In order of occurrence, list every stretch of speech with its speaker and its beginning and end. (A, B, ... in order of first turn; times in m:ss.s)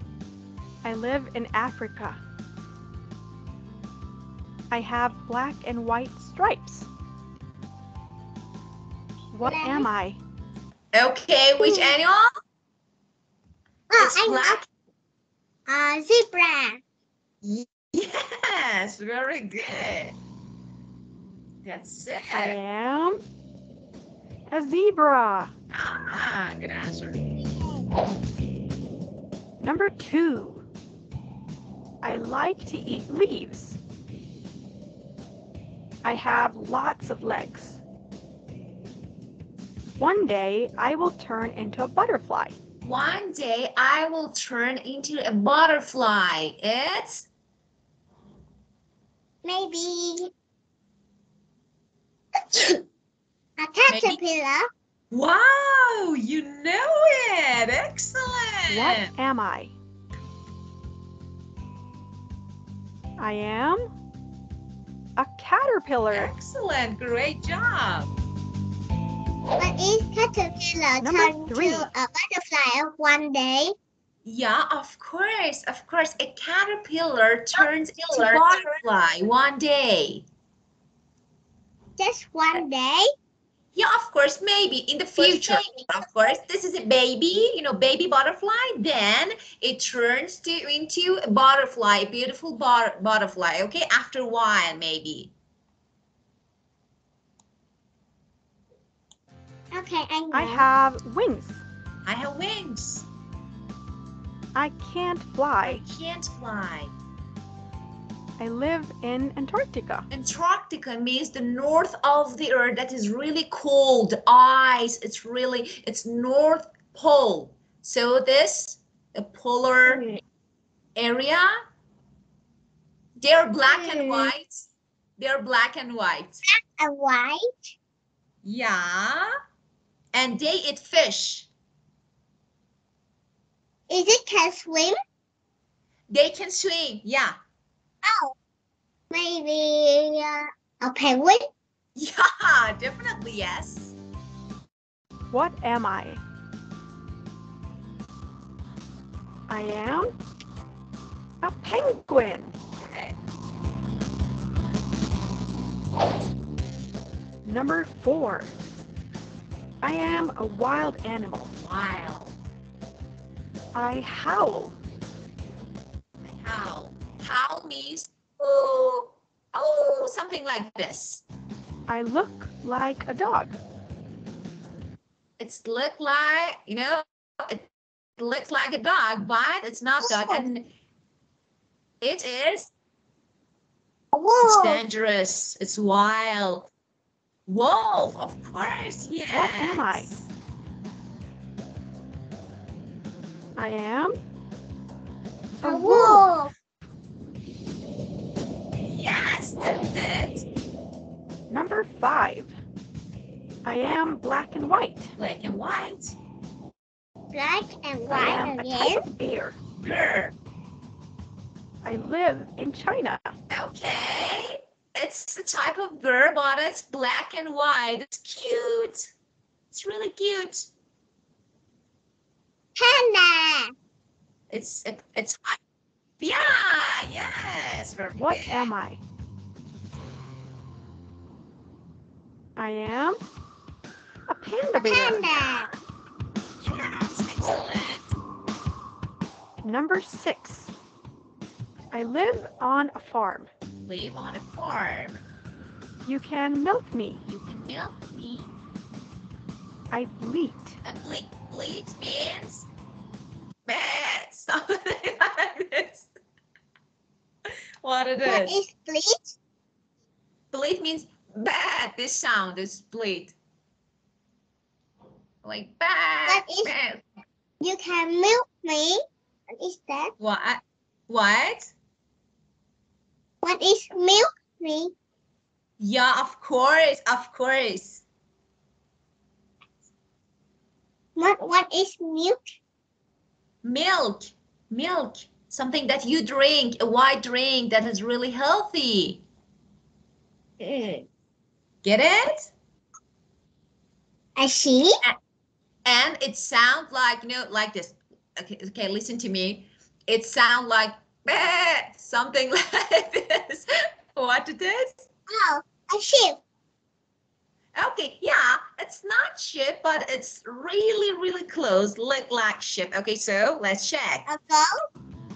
0:00.8-0:02.2 A
0:04.7-0:06.9 A
0:09.3-0:10.2 A
0:09.4-0:09.9 B
0:10.9-0:12.3 C
0:11.6-0:11.9 B
0:13.9-0:14.6 B
0:14.0-0:14.7 C
0:15.7-0:16.8 B
0:17.4-0:20.2 C
0:21.6-0:22.6 C
0:22.3-0:23.2 A
0:24.5-0:25.5 A
0:25.7-0:27.2 C
0:27.6-0:27.8 B
0:29.6-0:30.6 A
0:32.0-0:33.8 A
0:36.0-0:37.8 A
0:40.0-0:42.6 A
0:42.8-0:47.3 C
0:49.4-0:50.3 B
0:52.5-0:52.8 B
0:53.6-0:54.7 B
0:53.9-0:54.2 C
0:55.1-0:59.1 C
0:58.7-0:59.8 A
1:03.2-1:03.9 A
1:05.2-1:06.3 A
1:06.1-1:08.1 C
1:09.6-1:13.7 B
1:11.0-1:11.9 A
1:14.3-1:20.2 C
1:22.0-1:23.1 B
1:23.8-1:35.3 C
1:25.2-1:25.8 B
1:39.7-1:40.7 B
1:40.3-1:41.6 A
1:42.1-1:43.1 C
1:44.6-1:45.8 A
1:45.6-1:46.9 C
1:48.4-1:50.1 A
1:50.1-2:00.0 C
1:59.9-2:00.2 B
2:01.0-2:01.6 C
2:03.2-2:06.4 C
2:03.7-2:04.3 B
2:06.5-2:07.7 B
2:08.4-2:09.3 C
2:10.1-2:11.5 C
2:13.9-2:15.0 B
2:16.1-2:17.4 C
2:18.0-2:18.4 B
2:19.1-2:21.5 B
2:22.0-2:24.0 C
2:25.3-2:26.2 A
2:29.5-2:30.1 A
2:31.4-2:32.6 A
2:32.8-2:33.1 C
2:37.4-2:38.5 A
2:39.8-2:41.5 A
2:41.6-2:42.3 C
2:43.7-2:44.8 A
2:46.2-2:51.2 C
2:51.9-2:53.6 A
2:55.4-3:00.7 C
3:00.0-3:00.4 B
3:02.0-3:02.7 C
3:04.1-3:04.8 B
3:04.4-3:06.7 C
3:07.5-3:10.3 C
3:09.3-3:10.1 A
3:13.6-3:14.2 A
3:15.6-3:16.2 A
3:15.6-3:16.5 B
3:18.8-3:20.4 C
3:21.5-3:22.5 A
3:23.6-3:25.1 A
3:25.2-3:26.2 C
3:27.3-3:29.0 B
3:28.1-3:29.6 A
3:29.8-3:30.3 C
3:31.8-3:33.3 A
3:33.5-3:39.1 C
3:39.7-3:40.7 C
3:42.8-3:43.7 B
3:44.5-3:45.6 C
3:46.2-3:48.7 C
3:48.2-3:49.0 A
3:52.6-3:53.2 A
3:54.3-3:55.2 A
3:54.8-3:55.7 B
3:56.6-3:58.1 C
3:59.6-4:00.7 A
4:01.9-4:03.5 A
4:03.8-4:05.2 C
4:06.0-4:07.2 A
4:07.3-4:08.5 C
4:09.9-4:10.8 A
4:10.8-4:12.7 C
4:13.7-4:16.1 C
4:17.8-4:18.6 C
4:18.2-4:19.4 B
4:20.5-4:23.3 C
4:25.4-4:27.0 C
4:26.3-4:26.7 B
4:27.6-4:29.0 B
4:29.6-4:30.1 B
4:30.2-4:31.7 C
4:33.4-4:34.9 B
4:35.8-4:38.0 C
4:41.2-4:42.4 B
4:43.6-4:49.2 C
4:50.6-4:51.1 B
4:51.8-4:52.5 C
4:54.4-4:55.0 B
4:55.8-5:05.0 C
5:05.3-5:06.4 B
5:07.8-5:14.3 C
5:14.3-5:14.8 B